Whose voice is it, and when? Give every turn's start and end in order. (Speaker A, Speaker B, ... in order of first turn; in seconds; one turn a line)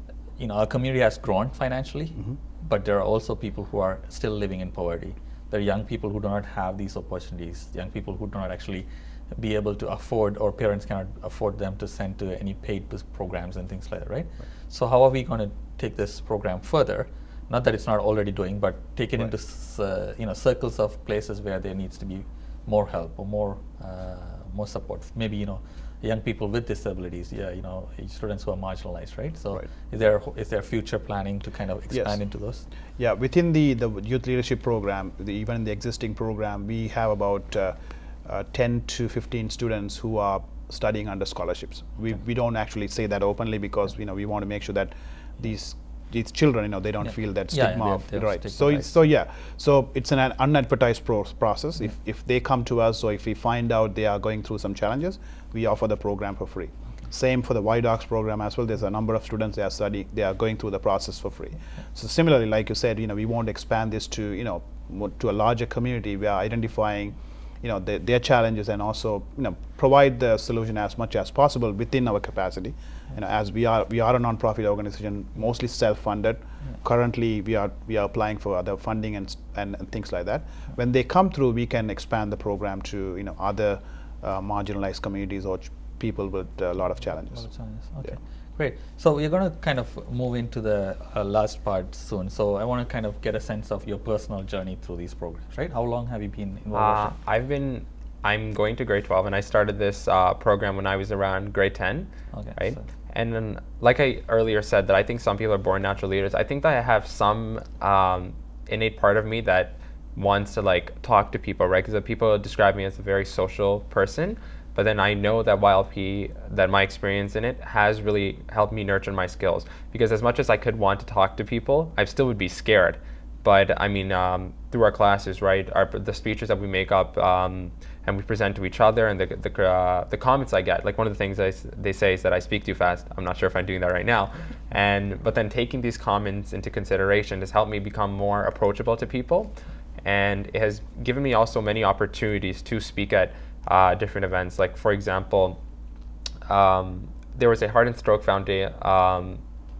Speaker A: 0.4-32.7
Speaker B: 31.9-32.2
Speaker B: 33.0-88.2
Speaker A: 47.0-48.9
Speaker A: 87.0-97.2
Speaker C: 96.7-145.6
Speaker A: 102.3-102.8
Speaker C: 146.5-149.4